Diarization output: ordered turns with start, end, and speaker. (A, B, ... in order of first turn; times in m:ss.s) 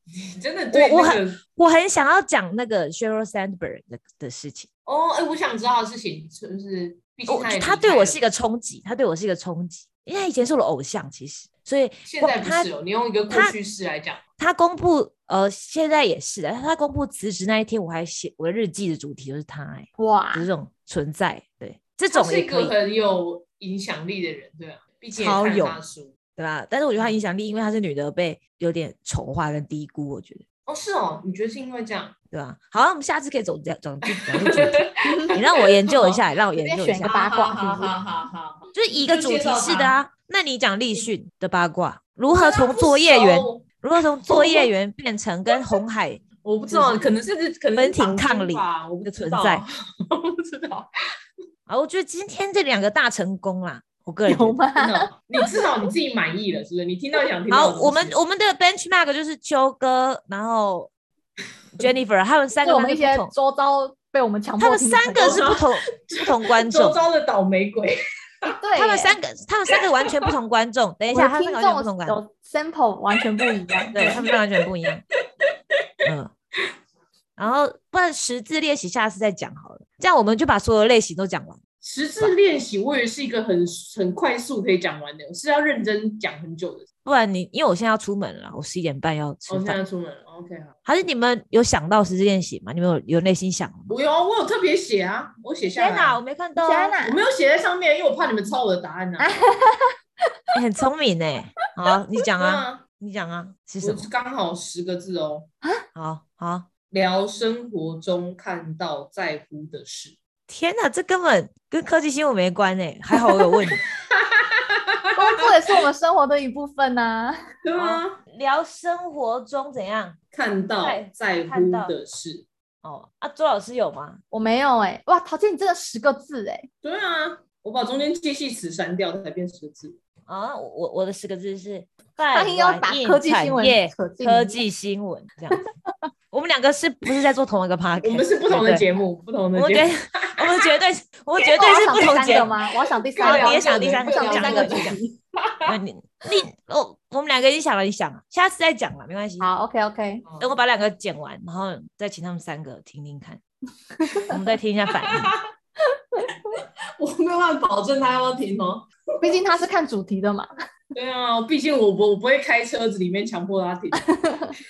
0:00.2-0:01.4 A
0:00.7-0:04.7 B
0:04.9-0:08.2 A
0:07.3-0:12.7 B
0:12.0-0:14.2 A
0:13.3-0:13.6 B
0:14.4-0:22.8 B
0:20.0-0:20.5 C
0:22.1-0:26.1 A
0:25.1-0:25.8 B
0:26.4-0:30.4 B
0:30.7-0:32.1 A
0:32.3-0:37.1 B
0:34.1-0:34.9 A
0:35.1-0:35.3 C
0:35.9-0:36.2 A
0:36.6-0:38.0 C
0:37.0-0:40.0 A
0:38.7-0:47.2 B
0:42.3-0:43.6 A
0:44.2-0:44.7 A
0:46.4-0:50.9 A
0:47.8-0:49.6 B
0:51.7-0:54.6 B
0:54.2-0:55.4 C
0:54.8-0:58.2 A
0:57.5-1:00.9 B
1:01.8-1:03.3 B
1:02.6-1:05.6 C
1:04.6-1:07.0 B
1:05.2-1:08.5 A
1:08.5-1:09.2 C
1:08.8-1:12.2 B
1:11.1-1:14.1 C
1:13.9-1:14.2 A
1:13.9-1:15.0 B
1:16.0-1:16.3 B
1:17.4-1:21.6 B
1:21.8-1:26.9 A
1:27.0-1:29.8 B
1:29.5-1:30.7 A
1:30.8-1:33.9 B
1:33.9-1:36.2 A
1:35.8-1:37.0 B
1:36.6-1:37.2 C
1:37.0-1:39.3 A
1:39.2-1:39.9 C
1:40.5-1:44.1 B
1:42.4-1:42.8 A
1:43.8-1:45.5 A
1:46.0-1:46.7 B
1:46.9-1:50.2 A
1:50.5-1:53.8 B
1:55.2-1:57.4 C
1:57.6-1:58.2 A
1:57.8-2:00.2 B
2:00.3-2:02.5 A
2:00.8-2:01.9 B
2:02.8-2:04.2 B
2:04.3-2:06.7 C
2:06.8-2:10.0 A
2:10.3-2:15.6 B
2:12.3-2:14.6 C
2:15.5-2:15.9 C
2:16.3-2:18.9 B
2:18.0-2:20.0 A
2:19.5-2:22.6 B
2:21.6-2:25.2 C
2:23.1-2:25.6 A
2:23.2-2:25.0 B
2:25.6-2:29.5 B
2:29.4-2:30.2 C
2:30.2-2:30.6 A
2:30.4-2:33.4 B
2:34.3-2:35.3 B
2:35.0-2:35.3 A
2:36.5-2:39.4 A
2:39.2-2:40.5 C
2:41.0-2:44.1 A
2:43.9-2:44.6 C